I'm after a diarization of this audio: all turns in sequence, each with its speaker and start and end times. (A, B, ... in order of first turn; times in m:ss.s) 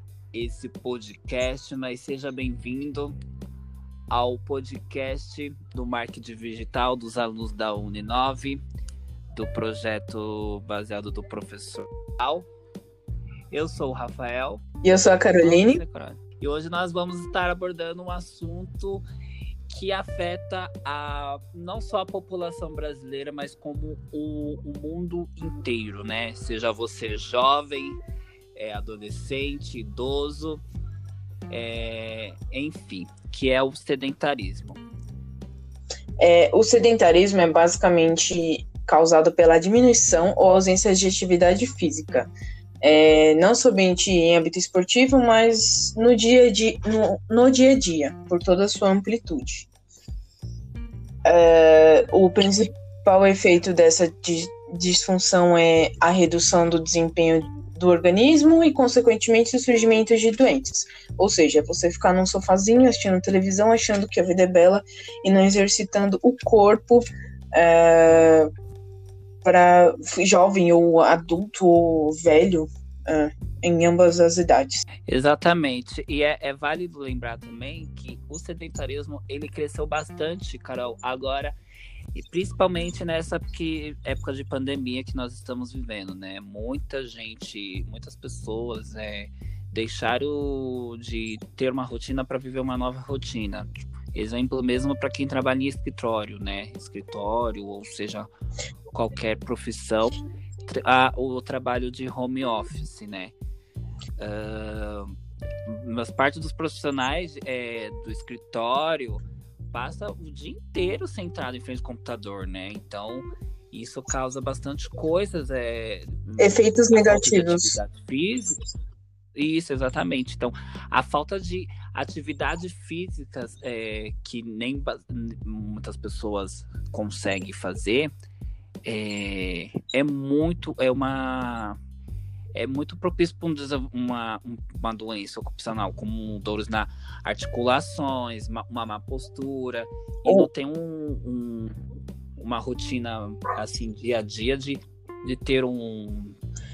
0:00.3-0:03.2 A
0:04.1-0:08.6 A
0:09.3-0:12.5 A
0:13.5-0:14.6 A
0:14.8-0:15.8 B
0:15.2-0:19.0 A
0:19.7-0:28.0 A
0:28.6-0:30.6 A
0:31.5-0:34.8 A
0:36.2-0:42.3 B
0:42.8-0:49.7 B
0:51.3-1:08.5 B
1:09.4-1:14.8 B
1:15.1-1:21.6 A
1:22.2-1:38.3 A
1:38.9-1:43.4 A
1:44.2-1:45.1 A
1:45.7-1:58.6 A
1:56.4-1:57.8 B
1:59.4-2:08.1 A
2:08.8-2:11.8 A
2:12.6-2:21.8 A
2:22.4-2:26.4 A